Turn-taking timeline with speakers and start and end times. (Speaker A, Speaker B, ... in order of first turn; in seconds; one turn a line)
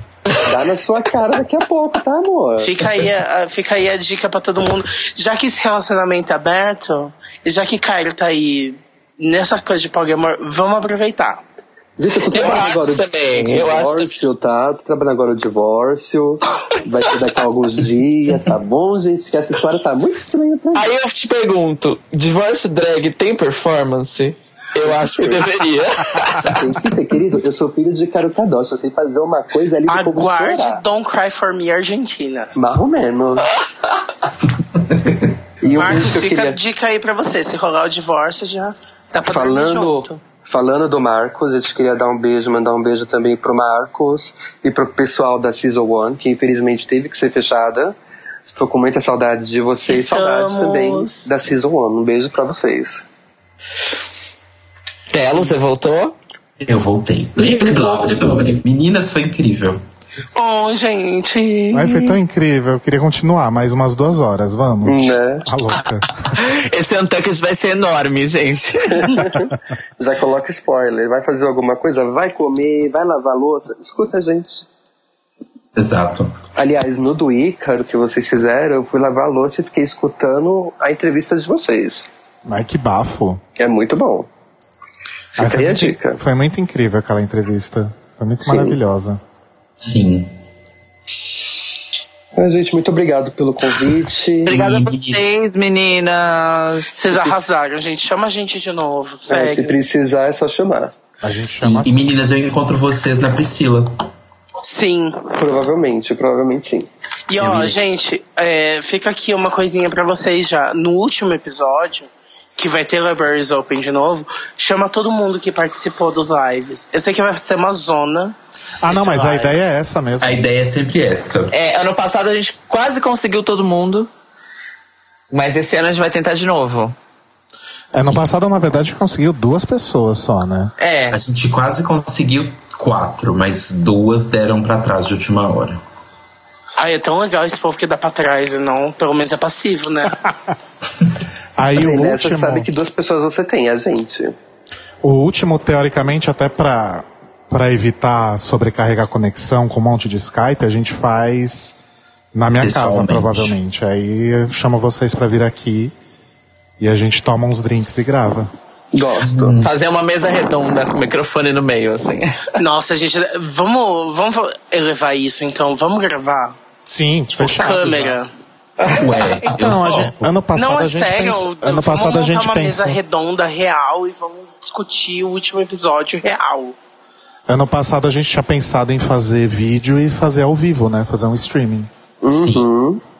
Speaker A: 0.4-2.7
Speaker B: 2.6-11.4
Speaker A: 12.0-20.9
Speaker C: 12.2-14.1
Speaker C: 20.7-26.7
Speaker A: 24.8-25.4
Speaker A: 26.5-30.8
Speaker B: 29.9-32.5
Speaker A: 32.5-33.5
Speaker D: 34.8-35.9
Speaker A: 35.6-36.6
Speaker B: 35.8-40.2
Speaker A: 39.3-47.9
Speaker A: 48.5-53.0
Speaker B: 49.9-51.3
Speaker C: 55.1-56.1
Speaker D: 56.6-57.4
Speaker C: 57.4-58.6
Speaker D: 58.6-59.8
Speaker B: 60.3-62.2
Speaker E: 61.7-66.3
Speaker A: 64.8-65.5
Speaker C: 66.4-69.2
Speaker A: 68.9-74.7
Speaker D: 75.8-76.3
Speaker A: 76.5-82.0
Speaker E: 82.5-83.4
Speaker A: 83.5-84.3
Speaker A: 85.3-86.2
Speaker E: 85.4-89.2
Speaker A: 88.4-88.8
Speaker D: 89.8-90.3
Speaker A: 92.3-94.6
Speaker C: 94.5-97.4
Speaker D: 94.5-95.2
Speaker B: 96.9-99.8
Speaker A: 99.3-100.9
Speaker E: 101.2-102.1
Speaker D: 101.5-104.0
Speaker B: 104.6-105.4
Speaker A: 105.3-106.9
Speaker B: 107.3-119.6
Speaker D: 107.4-107.8
Speaker E: 118.8-120.4
Speaker D: 120.2-121.5
Speaker C: 121.5-124.1
Speaker C: 125.3-127.0
Speaker E: 127.9-130.7
Speaker C: 130.8-131.2
Speaker D: 131.1-135.8
Speaker B: 136.8-140.2
Speaker E: 141.6-142.7
Speaker A: 141.7-144.3
Speaker E: 145.0-151.7
Speaker E: 152.3-155.9
Speaker D: 152.6-153.5
Speaker E: 156.8-158.5
Speaker A: 158.9-159.6
Speaker D: 159.2-159.7
Speaker C: 159.6-162.5
Speaker B: 162.6-166.6
Speaker E: 166.8-168.2
Speaker B: 167.3-168.3
Speaker D: 168.9-170.3
Speaker E: 169.4-173.0
Speaker B: 170.6-176.8
Speaker E: 177.5-181.9
Speaker A: 182.2-183.0
Speaker D: 182.3-182.7